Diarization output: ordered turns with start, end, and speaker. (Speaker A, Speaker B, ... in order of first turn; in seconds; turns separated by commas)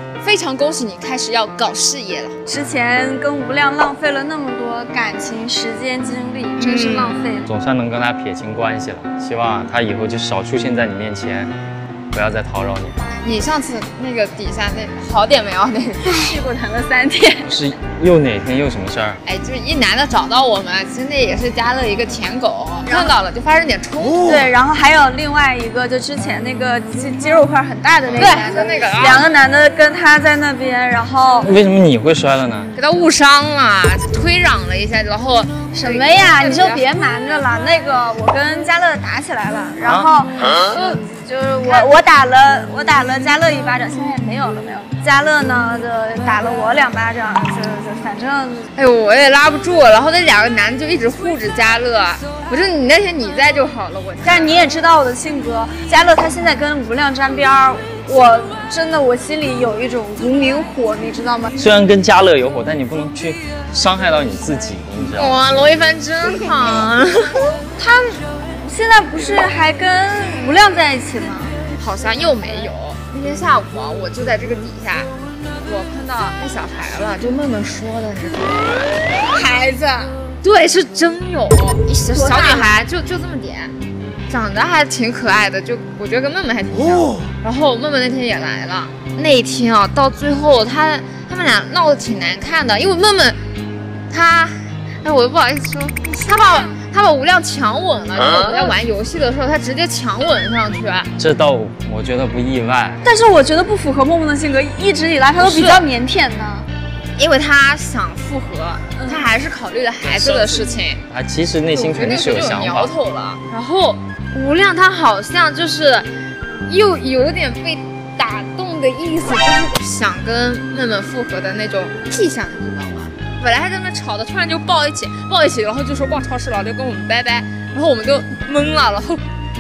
Speaker A: 0.2-2.4, Speaker B: 2.5-7.5, Speaker A: 6.6-7.3, Speaker C: 7.5-11.5, Speaker C: 12.1-13.0, Speaker A: 13.2-16.4, Speaker B: 16.1-17.4, Speaker C: 17.5-19.2, Speaker A: 19.2-24.4, Speaker B: 24.3-31.5, Speaker A: 28.2-29.3, Speaker C: 31.4-32.7, Speaker A: 32.8-36.9, Speaker B: 35.8-40.3, Speaker C: 39.8-40.1, Speaker A: 40.7-41.0, Speaker B: 41.2-48.5, Speaker A: 41.6-42.0, Speaker A: 48.8-54.7, Speaker B: 54.5-61.5, Speaker C: 61.6-65.4, Speaker A: 65.2-67.4, Speaker B: 68.6-71.5, Speaker A: 71.8-75.1, Speaker A: 75.6-83.8, Speaker B: 82.2-82.8, Speaker A: 84.3-93.4, Speaker A: 94.1-101.1, Speaker C: 101.2-103.0, Speaker B: 103.1-106.7, Speaker A: 105.4-105.9, Speaker A: 107.2-111.0, Speaker C: 110.0-112.9, Speaker A: 111.7-116.1, Speaker A: 116.7-129.2